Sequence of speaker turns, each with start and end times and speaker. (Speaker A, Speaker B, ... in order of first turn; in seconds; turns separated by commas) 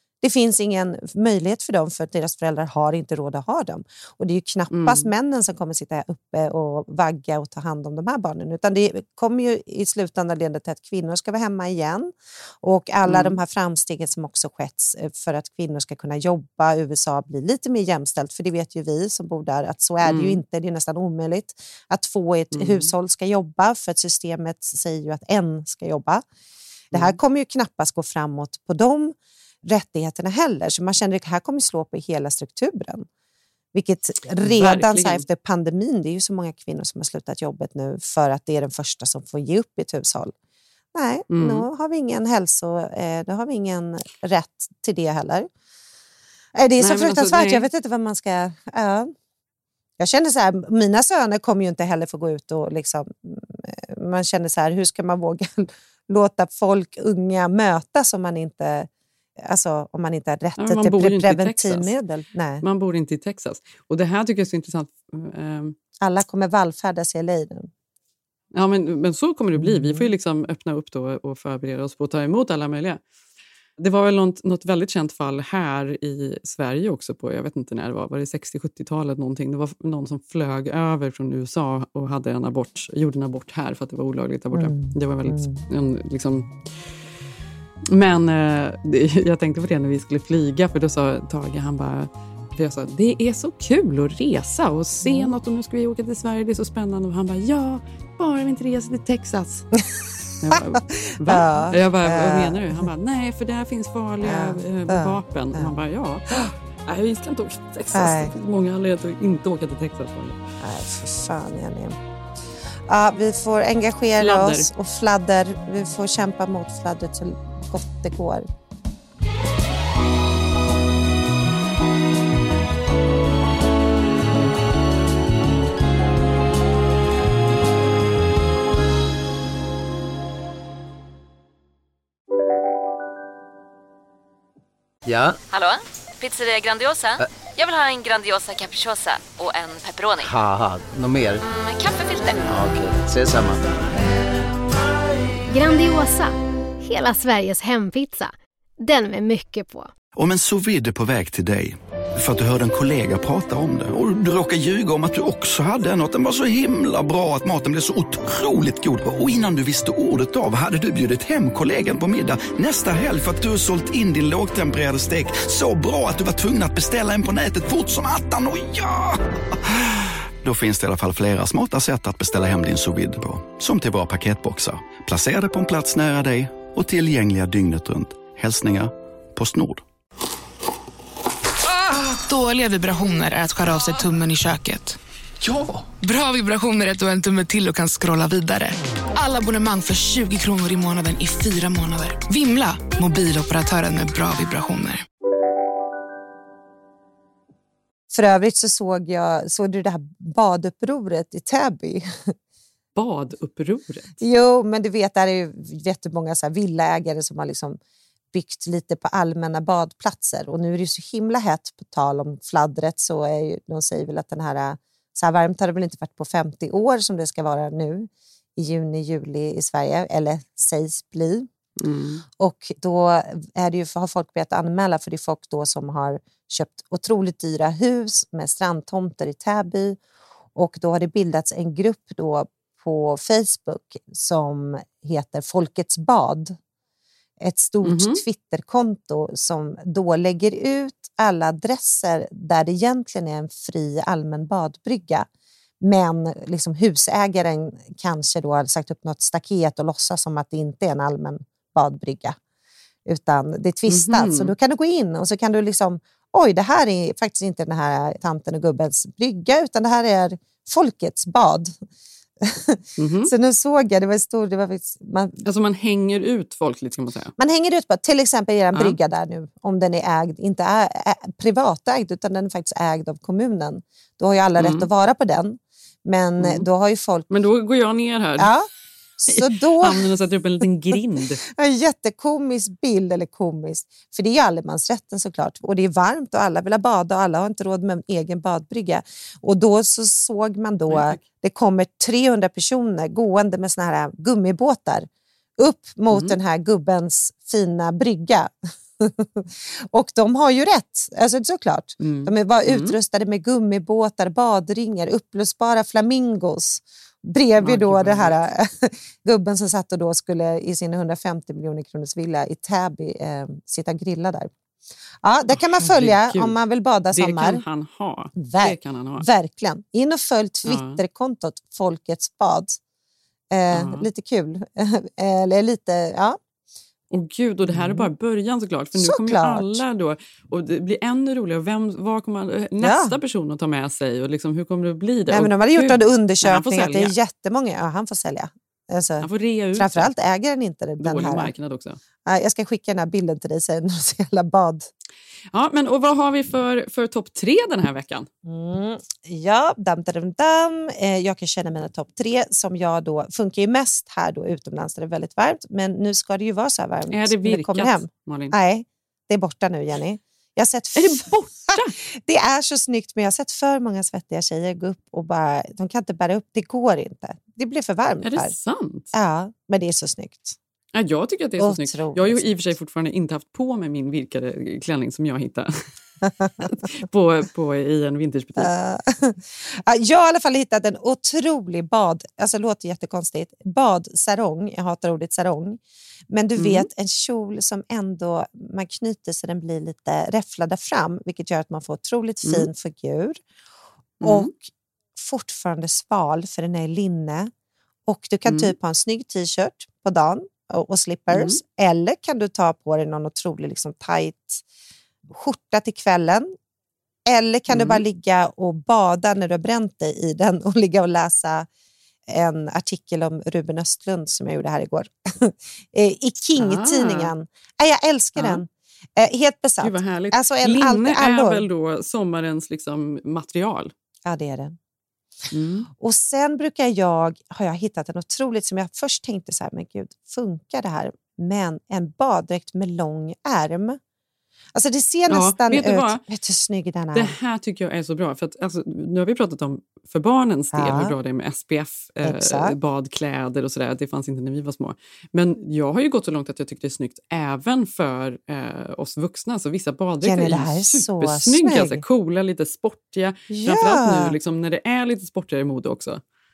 Speaker A: 0.2-26.2, Speaker B: 4.7-5.1, Speaker B: 13.1-13.4, Speaker B: 20.0-20.4, Speaker B: 22.5-22.9, Speaker B: 26.9-27.2, Speaker A: 26.9-33.1, Speaker A: 33.7-40.3, Speaker B: 34.4-35.2, Speaker A: 40.9-45.5, Speaker B: 41.3-41.7, Speaker A: 46.5-49.1, Speaker B: 46.8-47.7, Speaker A: 50.0-62.6, Speaker B: 60.6-61.9, Speaker B: 62.6-65.8, Speaker A: 66.0-67.7, Speaker B: 68.5-73.0, Speaker A: 69.5-70.1, Speaker B: 73.8-86.6, Speaker A: 84.5-85.6, Speaker B: 87.9-99.7, Speaker A: 95.0-95.3, Speaker B: 100.4-110.4, Speaker A: 100.5-102.9, Speaker A: 104.2-105.8, Speaker A: 107.9-108.3, Speaker A: 110.6-112.0, Speaker A: 112.9-118.5, Speaker B: 114.2-114.7, Speaker C: 135.1-135.4, Speaker D: 135.5-140.3, Speaker C: 140.2-141.4, Speaker D: 141.4-142.5, Speaker C: 142.5-143.6, Speaker E: 145.5-149.9, Speaker F: 150.2-179.8, Speaker G: 182.1-185.0, Speaker G: 186.0-195.0, Speaker A: 198.1-202.3, Speaker B: 202.9-204.2, Speaker A: 204.2-207.8, Speaker A: 208.3-221.5, Speaker B: 221.8-222.2, Speaker A: 222.4-230.0, Speaker A: 230.6-236.6, Speaker A: 237.4-245.3, Speaker B: 237.8-238.2, Speaker A: 245.8-252.4, Speaker A: 253.1-261.7, Speaker B: 253.9-254.5, Speaker A: 262.4-265.4, Speaker B: 263.0-263.3, Speaker B: 265.4-267.3, Speaker A: 267.4-277.3, Speaker B: 268.7-269.0, Speaker B: 274.6-274.9, Speaker B: 276.4-276.7, Speaker B: 277.3-278.5, Speaker A: 278.4-278.7, Speaker A: 279.2-280.1, Speaker B: 279.3-281.4, Speaker A: 281.5-314.5, Speaker B: 290.9-291.2, Speaker B: 296.1-296.4, Speaker B: 302.0-303.0, Speaker B: 307.6-308.4, Speaker A: 315.2-317.6, Speaker B: 315.5-316.6, Speaker B: 317.1-319.3, Speaker A: 318.4-322.8, Speaker B: 320.6-321.0, Speaker A: 323.5-326.4, Speaker B: 323.7-324.1, Speaker B: 327.1-337.1, Speaker A: 327.7-328.1, Speaker A: 329.0-329.8, Speaker A: 332.8-333.2, Speaker A: 335.3-341.5, Speaker B: 339.2-340.1, Speaker B: 341.0-342.0, Speaker A: 342.2-344.9, Speaker B: 345.5-348.3, Speaker A: 348.4-368.5, Speaker B: 357.1-358.6, Speaker B: 361.0-362.0, Speaker B: 368.2-369.1, Speaker A: 369.1-370.6, Speaker B: 370.9-375.7, Speaker A: 371.6-372.5, Speaker A: 376.2-376.5, Speaker B: 376.6-378.7, Speaker A: 378.6-385.8, Speaker A: 386.3-393.4, Speaker B: 386.6-386.9, Speaker B: 394.2-394.5, Speaker A: 394.2-397.5, Speaker A: 398.1-404.6, Speaker B: 398.5-398.7, Speaker B: 401.3-401.6, Speaker A: 405.3-406.5, Speaker A: 407.3-411.7, Speaker B: 407.7-408.0, Speaker A: 412.3-421.7, Speaker B: 416.6-417.3, Speaker B: 418.4-418.6, Speaker B: 419.8-423.9, Speaker A: 424.2-424.8, Speaker B: 425.5-425.9, Speaker A: 425.9-434.0, Speaker A: 434.8-437.4, Speaker B: 435.3-436.2, Speaker B: 437.1-456.2, Speaker A: 440.7-441.1, Speaker A: 442.2-442.8, Speaker A: 450.2-452.0, Speaker A: 453.5-454.4